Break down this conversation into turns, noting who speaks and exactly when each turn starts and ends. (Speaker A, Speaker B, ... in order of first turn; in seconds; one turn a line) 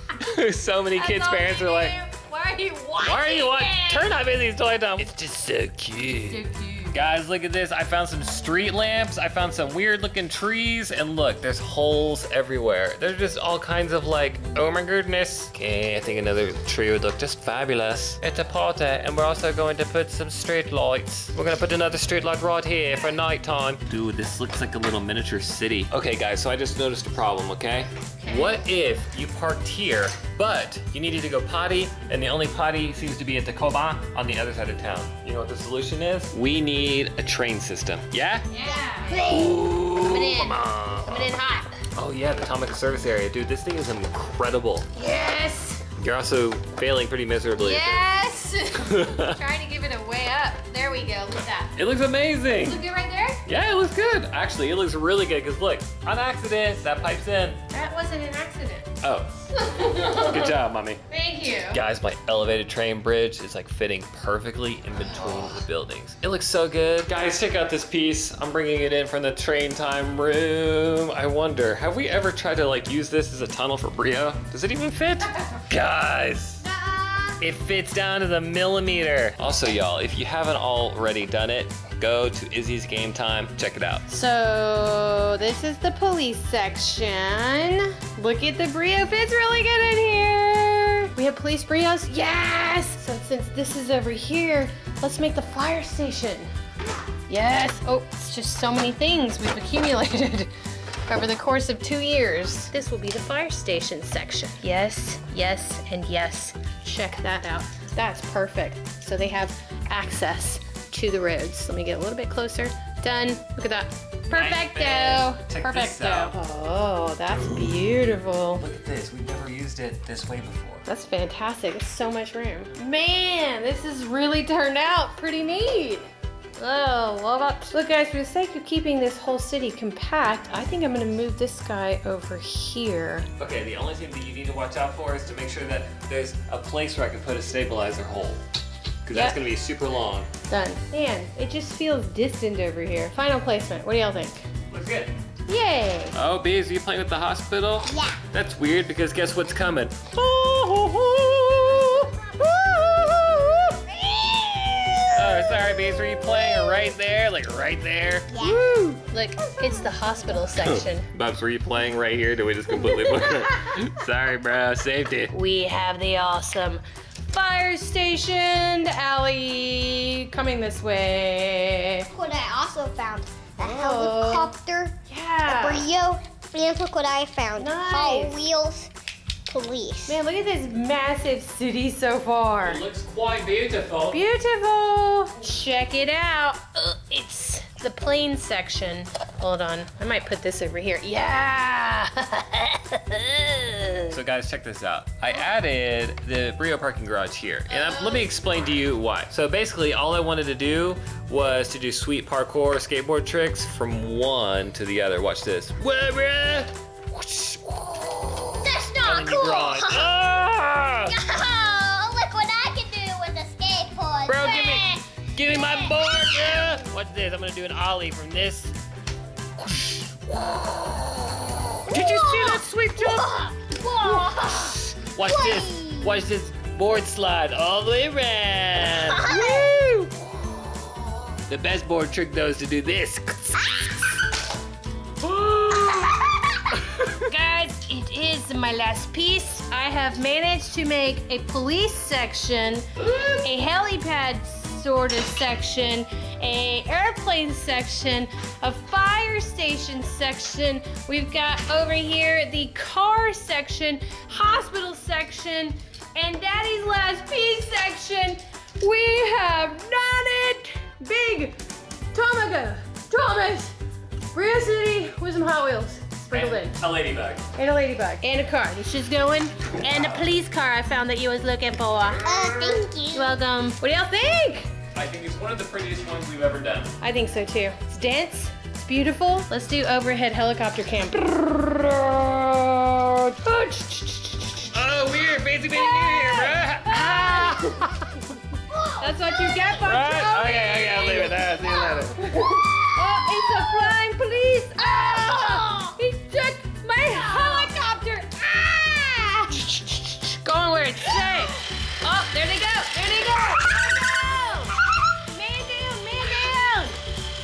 Speaker A: 0.2-1.9
Speaker B: 0.9-4.2
Speaker A: 3.0-6.4
Speaker B: 6.2-7.0
Speaker A: 6.9-38.5
Speaker B: 28.2-28.6
Speaker B: 38.5-39.2
Speaker C: 38.6-39.7
Speaker A: 39.3-41.4
Speaker B: 40.0-41.8
Speaker A: 42.0-44.9
Speaker B: 45.0-45.8
Speaker A: 46.0-48.0
Speaker B: 47.6-51.7
Speaker A: 48.8-49.3
Speaker A: 51.8-52.8
Speaker B: 52.6-53.4
Speaker A: 53.5-57.6
Speaker B: 57.7-58.9
Speaker A: 59.0-61.0
Speaker B: 59.5-60.5
Speaker B: 61.1-61.8
Speaker A: 61.7-76.6
Speaker B: 65.0-65.6
Speaker B: 76.7-77.4
Speaker A: 77.4-84.0
Speaker B: 84.1-96.5
Speaker B: 97.3-100.5
Speaker B: 101.1-118.7
Speaker A: 114.3-116.3
Speaker A: 117.3-120.8
Speaker B: 120.9-126.1
Speaker B: 126.6-133.3
Speaker A: 133.4-138.4
Speaker A: 139.1-140.3
Speaker B: 139.1-139.4
Speaker B: 140.5-144.5
Speaker A: 144.7-145.1
Speaker B: 145.5-146.2
Speaker A: 146.2-153.8
Speaker C: 147.9-148.2
Speaker C: 154.0-155.6
Speaker A: 155.1-158.3
Speaker C: 158.3-158.7
Speaker B: 158.4-161.1
Speaker C: 159.4-160.2
Speaker A: 160.5-165.3
Speaker B: 162.9-163.5
Speaker B: 165.3-172.1
Speaker C: 172.1-178.9
Speaker B: 173.6-174.5
Speaker B: 175.1-175.9
Speaker B: 177.6-178.4
Speaker C: 179.5-180.2
Speaker B: 180.1-182.8
Speaker A: 182.6-184.2
Speaker B: 184.1-194.2
Speaker A: 194.1-211.1
Speaker B: 197.8-198.2
Speaker C: 208.6-210.2
Speaker C: 211.1-216.8
Speaker A: 214.3-218.8
Speaker A: 219.8-220.9
Speaker C: 221.9-226.2
Speaker A: 221.9-223.5
Speaker A: 224.1-229.4
Speaker C: 229.2-229.8
Speaker B: 229.2-230.1
Speaker A: 231.5-233.8
Speaker A: 235.5-235.9
Speaker B: 235.6-236.0
Speaker B: 237.2-261.6
Speaker B: 262.1-263.7
Speaker B: 264.3-266.8
Speaker A: 266.3-267.4
Speaker B: 267.6-274.7
Speaker A: 269.8-270.3
Speaker A: 272.0-272.7
Speaker C: 272.2-273.4
Speaker A: 274.9-276.9
Speaker B: 277.0-284.8
Speaker A: 284.7-288.1
Speaker B: 285.7-288.0
Speaker B: 289.0-307.0
Speaker A: 289.7-292.5